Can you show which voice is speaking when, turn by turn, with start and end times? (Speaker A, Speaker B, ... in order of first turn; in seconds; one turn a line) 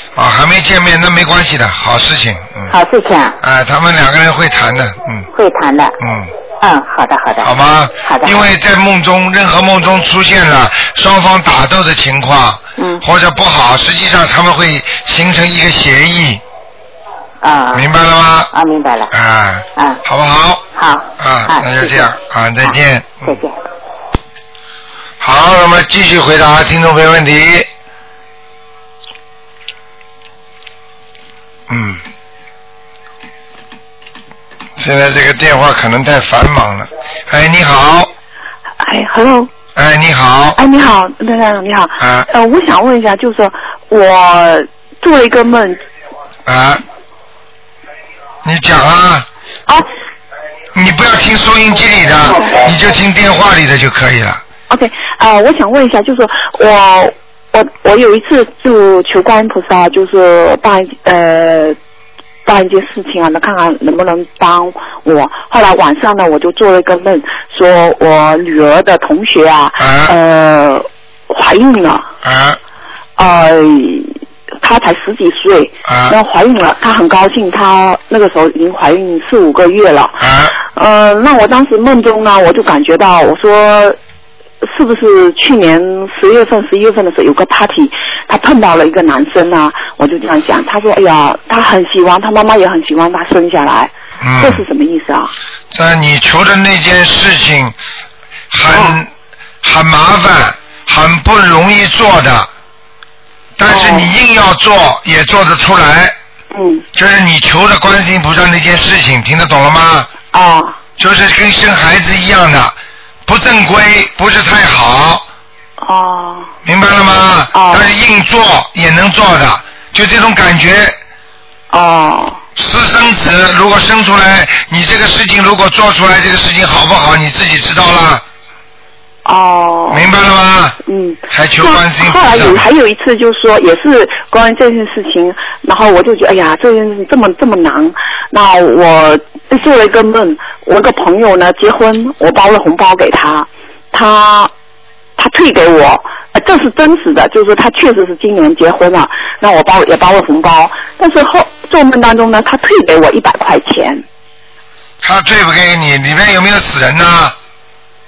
Speaker A: 0.1-2.7
Speaker B: 2.7-3.4
Speaker A: 3.4-5.3
Speaker B: 5.3-6.0
Speaker A: 6.0-6.3
Speaker B: 6.6-7.5
Speaker A: 7.4-16.4
Speaker B: 8.0-8.5
Speaker B: 12.8-13.0
Speaker B: 17.4-17.9
Speaker A: 17.7-18.5
Speaker B: 18.5-19.1
Speaker A: 19.1-20.6
Speaker B: 19.8-20.0
Speaker B: 20.8-22.1
Speaker A: 21.2-23.4
Speaker B: 22.6-23.6
Speaker A: 25.2-27.7
Speaker A: 31.7-32.0
Speaker A: 34.8-38.1
Speaker C: 38.8-39.5
Speaker A: 39.8-40.6
Speaker C: 40.6-45.8
Speaker A: 42.0-42.3
Speaker A: 46.5-46.8
Speaker A: 48.4-49.3
Speaker A: 50.8-54.4
Speaker C: 54.7-61.8
Speaker C: 62.5-72.1
Speaker A: 69.8-70.2
Speaker A: 72.2-72.6
Speaker C: 73.2-84.0
Speaker A: 75.9-76.2
Speaker A: 80.2-80.6
Speaker C: 84.6-95.3
Speaker A: 94.2-94.7
Speaker A: 95.7-97.8
Speaker A: 98.5-99.1
Speaker C: 98.7-99.0
Speaker A: 99.6-102.5
Speaker A: 103.6-106.2
Speaker C: 103.7-104.1
Speaker C: 106.5-106.8
Speaker A: 106.9-110.1
Speaker C: 110.3-110.8
Speaker A: 111.0-112.8
Speaker A: 113.3-115.3
Speaker C: 115.8-116.5
Speaker A: 116.7-121.0
Speaker C: 117.5-117.9
Speaker C: 121.7-122.4
Speaker A: 122.6-128.2
Speaker C: 129.2-130.1
Speaker A: 129.9-130.8
Speaker C: 130.8-144.5
Speaker A: 131.3-132.7
Speaker C: 145.2-154.0
Speaker A: 155.0-157.3